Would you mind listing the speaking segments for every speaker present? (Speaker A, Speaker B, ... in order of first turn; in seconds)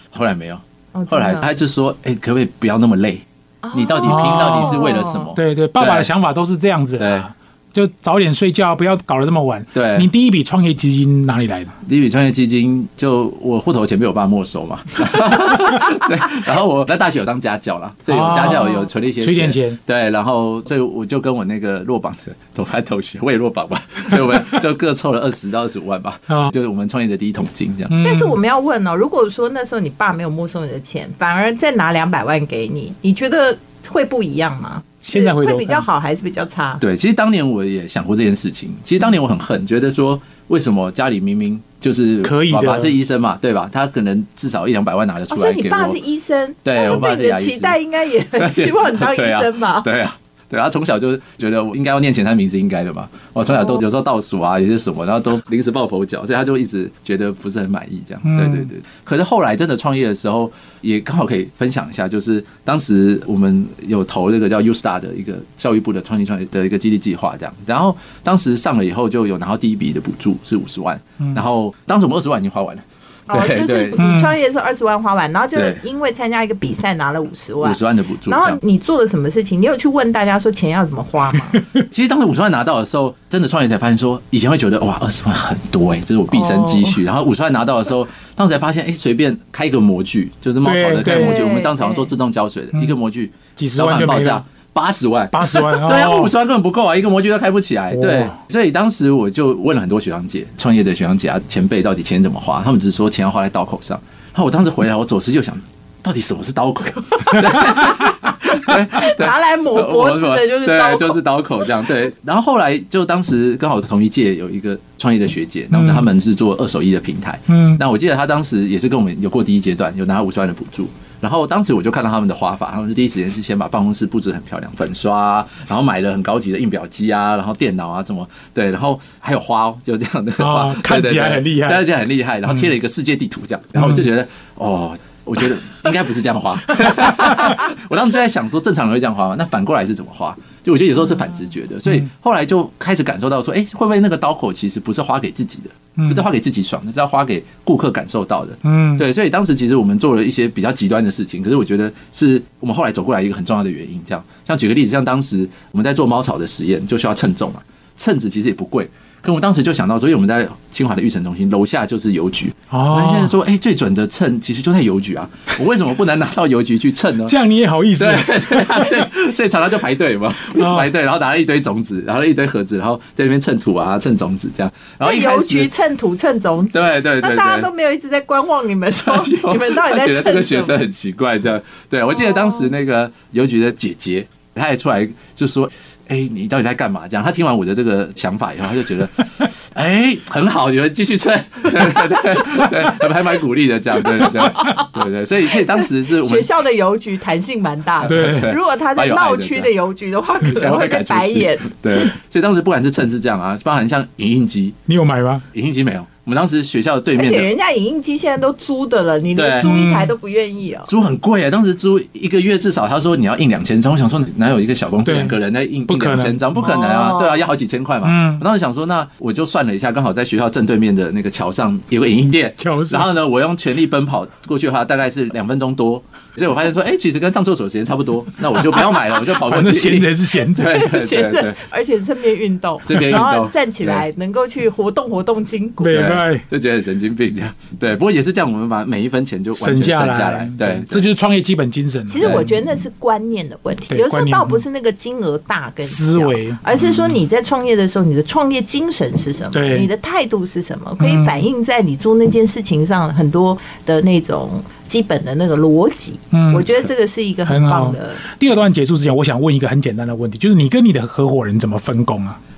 Speaker A: 0.1-6.1, 7.0-7.3, 9.7-10.1, 11.8-27.9, 36.8-46.0, 46.6-47.8, 48.4-74.0, 75.5-75.8, 77.6-78.6, 81.9-167.4, 167.9-175.7, 176.7-177.7, 179.0-196.5, 198.0-199.7, 200.4-204.8, 205.5-207.5, 209.3-209.7, 210.9-231.6, 232.8-234.1, 235.9-241.1, 242.2-242.5
Speaker B: 0.9-1.5, 3.6-5.3, 18.4-18.9, 28.0-36.8, 45.3-49.9, 73.3-81.6, 86.3-87.0, 91.0-92.1, 108.9-111.2, 175.0-180.8, 194.5-194.9, 195.6-201.7, 207.2-210.9, 216.6-217.4, 230.6-236.0, 242.1-258.2
Speaker C: 4.0-4.8, 5.3-11.7, 18.1-19.8, 27.9-28.3, 35.0-35.8, 42.2-42.9, 58.2-58.7, 74.0-74.3, 90.6-91.4, 93.6-94.4, 95.3-96.3, 97.9-98.3, 115.7-116.0, 117.5-117.8, 130.4-131.8, 148.6-149.0, 162.7-163.3, 167.3-169.0, 170.5-170.9, 198.0-198.5, 204.9-205.4, 209.6-210.1, 215.0-216.6, 218.0-218.4, 222.6-223.1, 229.4-230.9, 235.8-236.4, 239.6-242.4, 243.9-244.6, 245.8-246.6, 249.5-249.9, 251.0-251.4, 256.3-256.7, 257.5-262.4